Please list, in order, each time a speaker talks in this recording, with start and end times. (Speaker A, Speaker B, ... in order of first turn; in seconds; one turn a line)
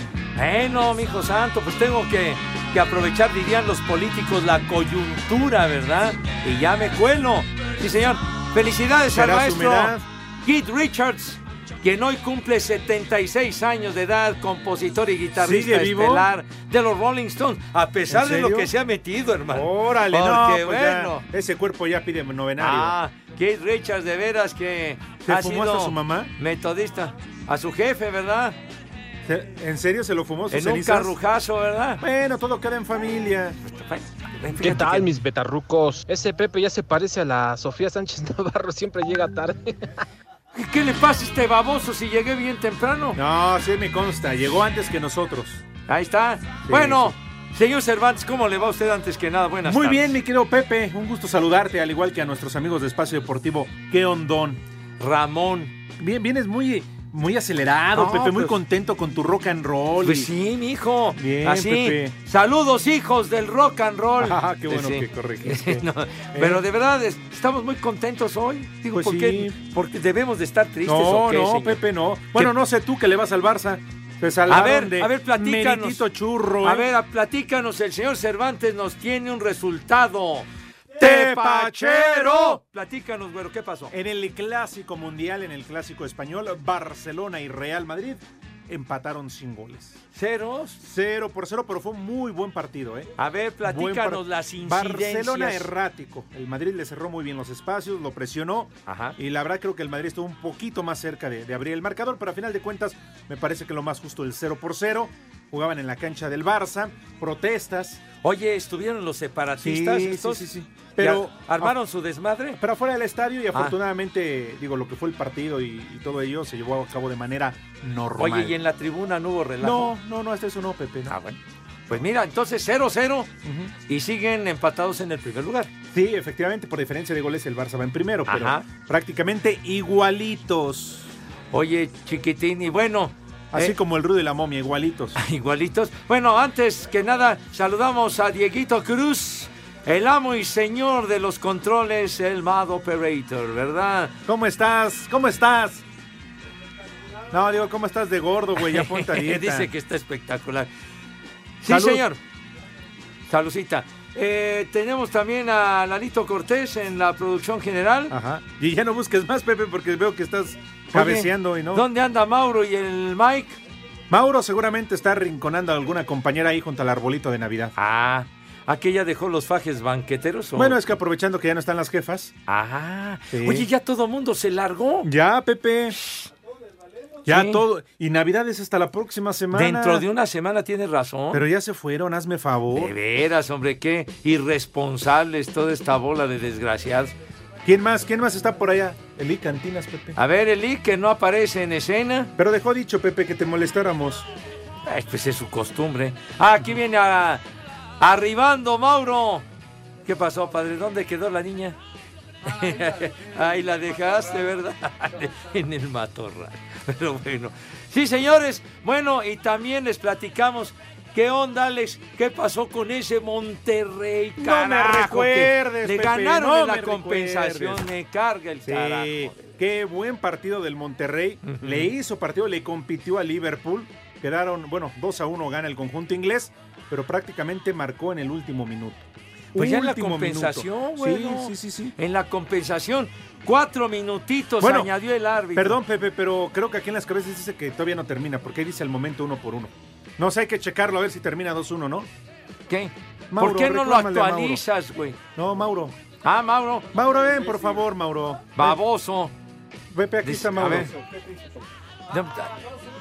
Speaker A: 0.3-21.2
Speaker B: 9.1-10.0
Speaker B: 15.4-16.3
Speaker B: 18.1-18.7
Speaker B: 19.5-23.0
Speaker A: 22.6-28.6
Speaker B: 25.2-26.3
Speaker B: 29.3-31.1
Speaker A: 30.5-32.0
Speaker B: 32.0-33.6
Speaker A: 33.7-35.1
Speaker C: 34.6-39.7
Speaker A: 40.5-43.2
Speaker B: 43.1-45.6
Speaker A: 45.9-50.1
Speaker B: 46.7-47.1
Speaker B: 49.6-54.6
Speaker A: 55.0-55.7
Speaker B: 56.0-60.3
Speaker A: 58.0-58.5
Speaker A: 60.0-71.8
Speaker B: 61.2-62.1
Speaker B: 64.2-66.6
Speaker B: 68.9-69.5
Speaker B: 70.8-76.9
Speaker A: 74.5-76.0
Speaker A: 76.6-80.5
Speaker B: 81.0-82.6
Speaker A: 81.0-83.9
Speaker B: 83.9-90.0
Speaker A: 90.1-90.8
Speaker B: 90.8-108.0
Speaker A: 93.2-95.7
Speaker A: 98.9-99.2
Speaker A: 108.2-110.4
Speaker B: 109.6-111.7
Speaker A: 111.0-112.6
Speaker B: 112.6-118.5
Speaker A: 118.2-119.9
Speaker B: 119.6-121.2
Speaker A: 121.1-121.4
Speaker A: 121.9-123.3
Speaker B: 123.4-123.7
Speaker A: 123.9-125.7
Speaker B: 125.9-131.1
Speaker A: 128.3-128.7
Speaker A: 131.5-133.7
Speaker B: 133.5-135.2
Speaker A: 135.2-144.1
Speaker B: 144.2-145.8
Speaker B: 147.3-149.7
Speaker A: 148.6-150.7
Speaker A: 151.6-152.2
Speaker B: 151.7-152.0
Speaker A: 153.3-158.1
Speaker B: 158.1-161.8
Speaker A: 160.9-163.6
Speaker B: 164.1-167.7
Speaker A: 167.8-170.8
Speaker B: 170.6-172.3
Speaker A: 172.5-175.1
Speaker B: 173.3-173.7
Speaker B: 175.0-176.0
Speaker B: 177.3-180.0
Speaker A: 177.3-177.6
Speaker A: 179.5-181.4
Speaker B: 181.3-182.9
Speaker A: 182.7-187.1
Speaker B: 187.6-190.2
Speaker A: 190.2-192.3
Speaker B: 192.4-194.2
Speaker A: 194.8-197.4
Speaker A: 198.0-199.4
Speaker A: 200.0-201.8
Speaker A: 202.4-219.5
Speaker B: 214.4-217.8
Speaker B: 218.6-231.9
Speaker A: 221.4-221.9
Speaker A: 229.5-235.8
Speaker B: 234.6-234.9
Speaker B: 235.5-242.1
Speaker A: 242.7-245.2
Speaker B: 243.3-244.6
Speaker B: 245.3-245.9
Speaker A: 246.2-246.9
Speaker B: 246.9-248.8
Speaker A: 248.6-249.3
Speaker B: 249.9-250.9
Speaker A: 250.2-250.9
Speaker A: 252.1-252.5